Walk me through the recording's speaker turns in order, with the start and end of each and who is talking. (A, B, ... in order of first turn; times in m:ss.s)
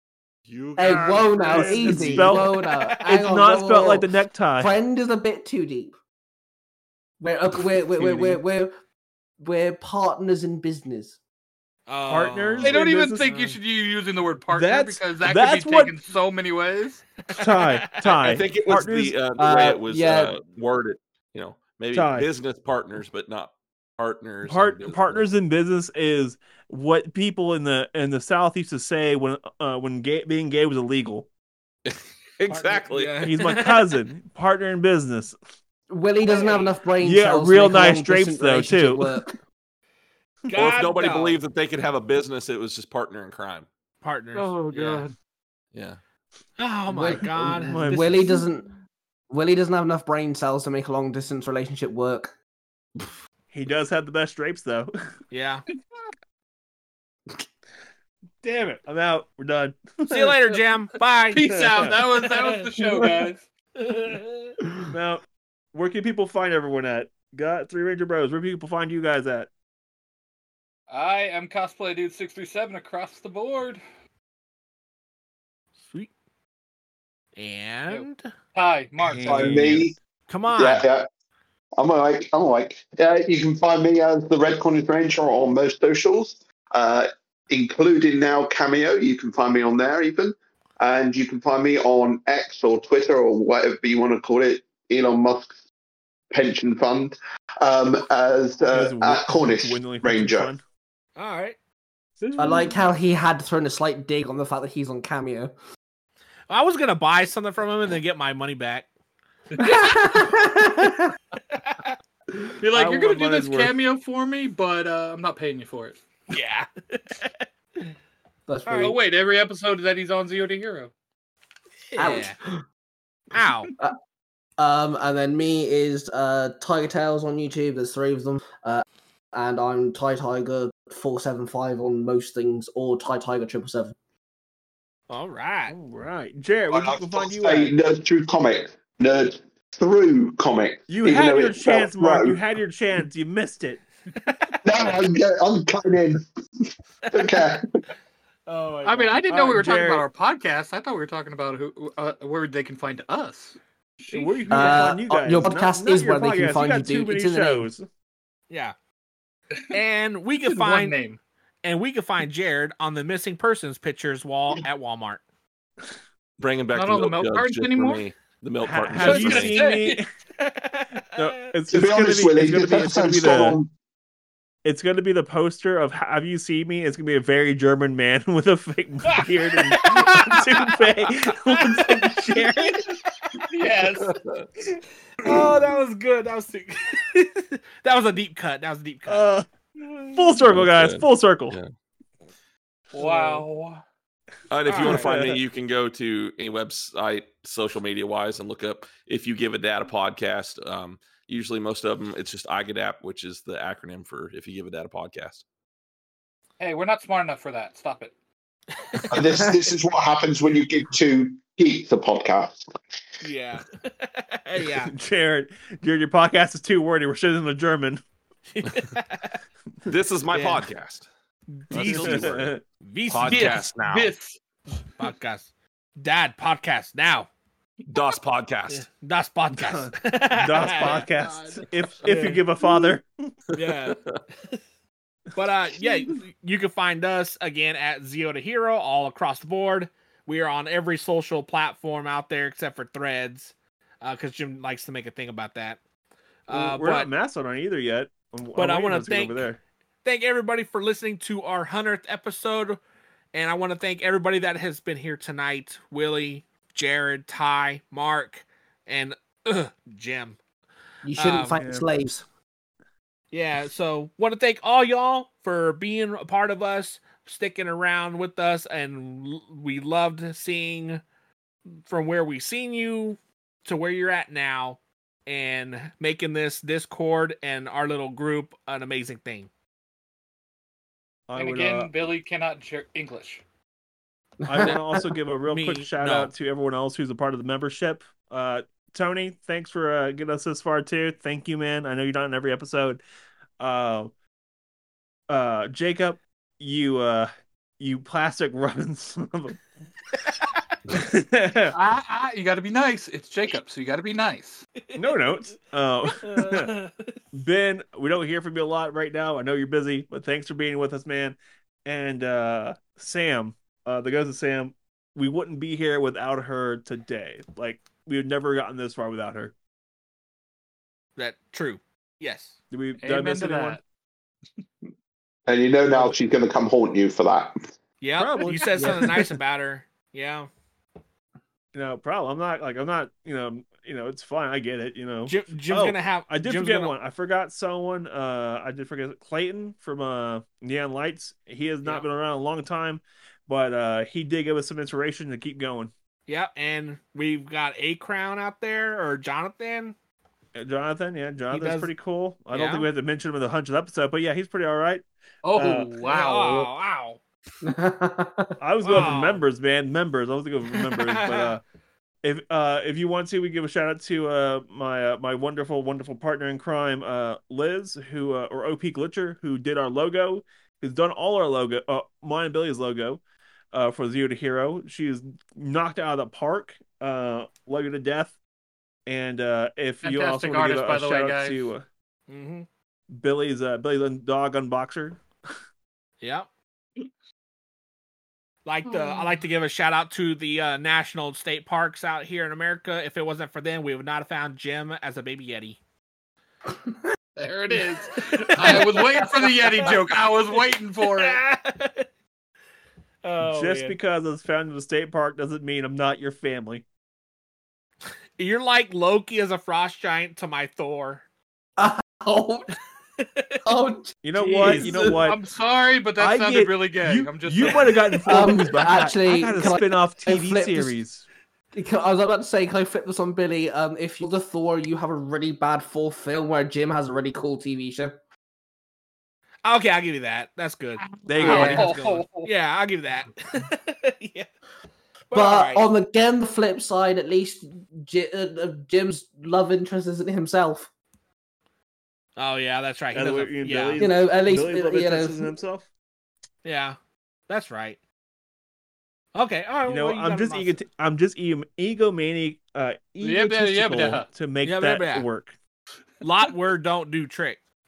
0:00.5-0:02.3 A
0:00.8-0:04.1 B
0:01.4-0:04.7 C
0:02.6-0:02.8 D
0:04.6-0:05.9 B
0:07.2-0:08.7 B
0:08.0-0:08.4 C
0:09.4-0:11.2 B
0:11.9-0:12.8 D
0:12.0-0:13.6 C
0:12.6-0:17.0 E
0:14.5-0:16.0 C
0:17.3-0:19.2 C
0:17.4-0:17.7 D
0:18.0-0:25.2 A
0:19.4-0:20.3 B
0:21.9-0:22.3 C
0:24.4-0:31.3 C
0:31.8-0:33.2 A
0:32.5-0:33.9 D
0:33.2-0:35.4 C
0:35.9-0:39.3 B
0:36.3-0:36.7 D
0:37.0-0:39.2 C
0:40.5-0:41.4 D
0:40.5-0:43.7 A
0:44.0-0:45.1 D
0:44.3-0:45.1 E
0:45.7-0:46.0 A
0:46.6-0:47.9 D
0:46.9-0:48.7 B
0:47.4-0:48.4 C
0:49.3-0:52.3 B
0:53.5-0:54.9 C
0:55.3-0:55.6 D
0:58.4-1:00.5 C
1:00.1-1:01.6 D
1:01.3-1:03.4 E
1:01.4-1:02.1 C
1:02.8-1:03.0 C
1:03.8-1:04.6 D
1:04.9-1:05.2 C
1:05.7-1:09.5 C
1:10.9-1:13.8 E
1:15.8-1:16.1 D
1:17.4-1:18.3 D
1:17.9-1:19.5 E
1:19.0-1:19.9 C
1:19.2-1:19.9 F
1:20.3-1:20.9 D
1:20.5-1:21.1 F
1:21.8-1:35.6 F
1:36.3-1:40.5 F
1:38.7-1:40.6 C
1:41.2-1:41.6 D
1:42.2-1:42.8 E
1:42.4-1:45.5 B
1:46.5-1:48.9 D
1:49.5-1:50.1 E
1:49.6-1:51.1 B
1:51.5-1:51.9 D
1:52.6-1:56.0 E
1:52.7-1:53.7 C
1:56.3-1:57.4 D
1:58.5-1:59.0 B
1:58.6-1:59.0 D
1:58.8-2:00.9 E
2:01.9-2:02.3 D
2:02.0-2:02.6 B
2:03.3-2:03.7 D
2:04.6-2:13.9 B
2:15.1-2:15.8 D
2:15.7-2:17.7 C
2:16.7-2:22.4 F
2:20.9-2:23.8 C
2:24.2-2:24.5 D
2:24.6-2:26.2 F
2:27.1-2:27.6 F
2:28.5-2:29.2 D
2:28.8-2:34.8 E
2:29.3-2:30.0 C
2:34.1-2:37.8 C
2:34.5-2:37.7 B
2:38.5-2:38.7 D
2:39.7-2:41.0 D
2:40.4-2:41.2 E
2:41.6-2:45.2 D
2:46.4-2:49.7 A
2:46.7-2:48.0 E
2:48.6-2:50.1 C
2:48.9-2:50.0 E
2:50.4-2:51.5 D
2:51.2-2:53.6 C
2:51.7-2:53.7 F
2:54.6-3:02.9 C
2:59.2-3:02.1 D
3:03.5-3:04.1 E
3:05.2-3:09.2 D
3:09.1-3:09.4 C
3:10.1-3:11.6 C
3:10.5-3:11.7 A
3:12.9-3:13.8 E
3:13.0-3:13.4 D
3:14.5-3:25.4 A
3:14.6-3:15.1 D
3:14.8-3:15.4 C
3:26.6-3:28.1 E
3:29.1-3:32.7 F
3:33.2-3:34.9 D
3:34.8-3:38.0 C
3:38.5-3:39.4 D
3:39.8-3:41.1 A
3:40.3-3:40.6 D
3:41.5-3:43.7 D
3:41.7-3:42.5 A
3:41.7-3:42.6 C
3:43.1-3:44.1 A
3:43.3-3:44.4 E
3:45.0-3:47.3 D
3:47.9-3:48.8 A
3:48.7-3:51.1 D
3:49.5-3:53.1 C
3:50.7-3:51.6 E
3:52.0-3:52.5 D
3:53.5-3:54.0 D
3:53.6-3:54.2 A
3:55.3-4:05.8 D
4:06.5-4:07.1 D
4:06.5-4:09.6 C
4:08.5-4:09.4 D
4:10.0-4:12.8 D
4:13.3-4:20.4 D
4:21.0-4:22.2 B
4:21.2-4:21.6 D
4:21.6-4:21.9 C
4:23.3-4:31.0 D
4:31.8-4:39.5 D
4:41.3-4:41.9 C
4:41.4-4:43.4 E
4:44.4-4:45.1 B
4:44.4-4:53.0 C
4:45.5-4:46.3 D
4:53.6-4:54.1 C
4:55.3-4:59.6 C
5:00.9-5:01.8 C
5:01.7-5:04.6 E
5:04.9-5:05.4 D
5:05.0-5:06.7 C
5:06.1-5:07.2 D
5:07.3-5:19.5 C
5:21.2-5:22.6 D
5:22.7-5:23.8 C
5:23.0-5:23.8 E
5:25.5-5:27.6 F
5:28.0-5:30.5 D
5:28.2-5:29.3 C
5:31.7-5:45.9 C
5:35.2-5:37.0 D
5:46.3-5:49.9 D
5:50.5-5:55.9 C
5:51.5-5:51.9 D
5:52.5-5:52.9 D
5:55.4-5:56.7 E
5:56.0-5:57.2 D
5:57.6-5:59.1 B
5:58.6-6:01.6 C
5:58.8-5:59.4 D
6:00.8-6:01.5 D
6:02.2-6:13.2 C
6:13.7-6:18.4 C
6:19.0-6:21.8 C
6:20.0-6:21.7 E
6:22.3-6:22.7 D
6:23.1-6:25.2 C
6:26.2-6:26.5 D
6:28.6-6:35.8 D
6:28.9-6:29.3 E
6:37.4-6:41.4 E
6:38.2-6:40.1 D
6:41.0-6:42.1 D
6:43.2-6:44.0 D
6:43.4-6:46.8 C
6:48.4-6:51.2 D
6:51.8-6:52.7 B
6:53.2-6:53.6 D
6:53.6-6:55.3 B
6:54.2-6:55.4 C
6:54.5-6:58.1 E
6:54.6-6:54.8 D
6:56.2-7:01.2 C
6:58.2-7:01.0 B
7:01.7-7:08.2 B
7:09.6-7:14.5 D
7:11.2-7:12.0 C
7:11.3-7:12.5 E
7:11.4-7:11.8 B
7:15.3-7:15.9 D
7:15.3-7:20.9 B
7:22.4-7:24.0 D
7:23.1-7:25.9 C
7:24.0-7:25.5 B
7:26.6-7:27.0 D
7:27.5-7:28.0 D
7:29.3-7:30.8 D
7:29.8-7:35.5 C
7:33.2-7:34.3 E
7:34.6-7:35.3 D
7:36.2-7:37.6 D